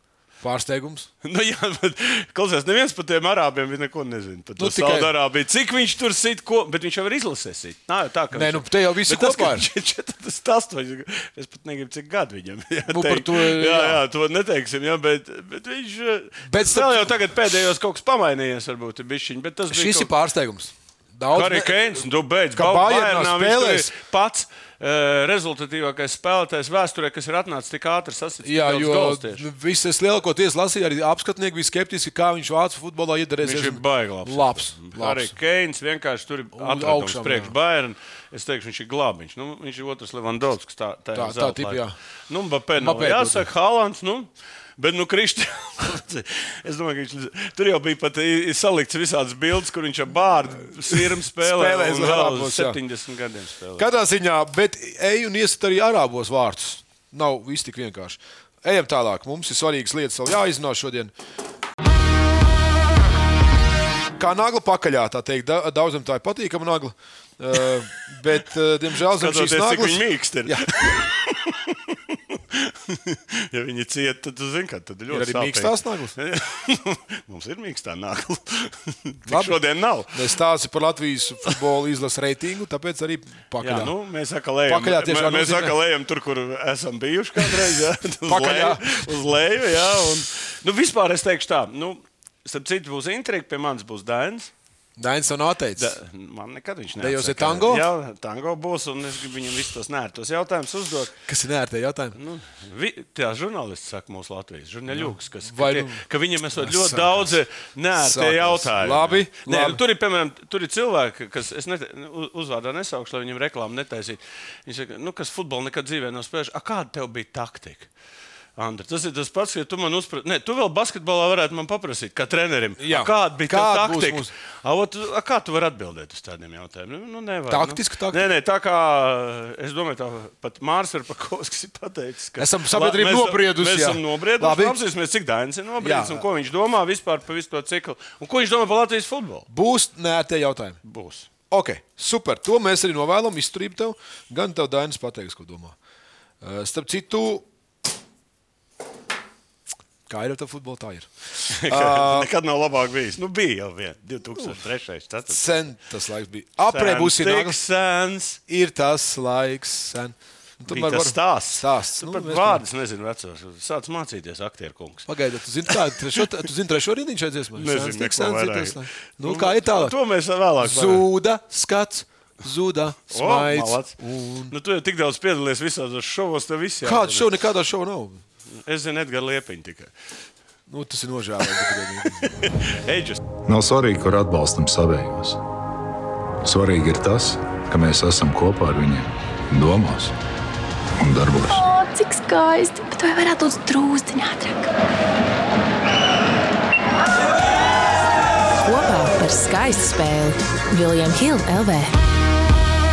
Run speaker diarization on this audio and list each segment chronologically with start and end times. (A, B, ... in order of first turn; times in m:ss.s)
0:00.4-0:01.1 A
0:01.2-0:20.1 B
0:04.6-0:05.1 A
0:08.3-0:09.7 A
0:12.9-0:14.0 A
0:16.5-0:17.1 A
0:19.7-0:21.8 A
0:21.3-0:29.5 B
0:22.6-0:23.9 A
0:28.4-0:35.3 A
0:33.4-0:53.9 B
0:36.5-0:37.6 A
0:41.2-0:42.0 A
0:42.8-0:43.5 A
0:50.7-0:52.8 A
0:53.8-1:01.1 A
1:04.2-1:11.0 A
1:09.0-1:20.3 B
1:15.1-1:16.2 A
1:19.3-1:19.6 A
1:20.1-1:23.9 A
1:23.6-1:34.5 B
1:24.7-1:25.8 A
1:27.4-1:27.7 A
1:28.3-1:29.1 A
1:35.0-1:36.0 A
1:35.8-1:41.1 B
1:37.0-1:37.9 A
1:41.3-1:42.2 A
1:42.2-1:57.9 B
1:44.9-1:47.4 A
1:48.0-1:49.8 A
1:58.6-2:19.5 B
2:02.8-2:04.3 A
2:07.5-2:08.3 A
2:12.4-2:14.8 A
2:15.8-2:16.3 A
2:19.5-2:20.8 A
2:20.8-2:21.3 B
2:21.5-2:25.8 A
2:26.4-2:27.4 A
2:30.1-2:32.3 A
2:31.5-2:35.6 B
2:35.3-2:37.6 A
2:36.6-2:38.4 B
2:38.5-2:42.6 A
2:40.7-2:45.1 B
2:45.1-2:50.0 A
2:45.7-2:46.2 B
2:47.6-2:51.1 B
2:50.6-2:54.5 A
2:53.1-2:54.0 B
2:54.5-2:57.3 B
2:56.8-2:58.2 A
2:58.5-2:59.9 B
3:00.7-3:02.4 A
3:02.0-3:03.2 B
3:03.5-3:05.4 C
3:06.4-3:10.2 C
3:11.0-3:11.6 C
3:11.5-3:14.7 D
3:18.6-3:21.9 E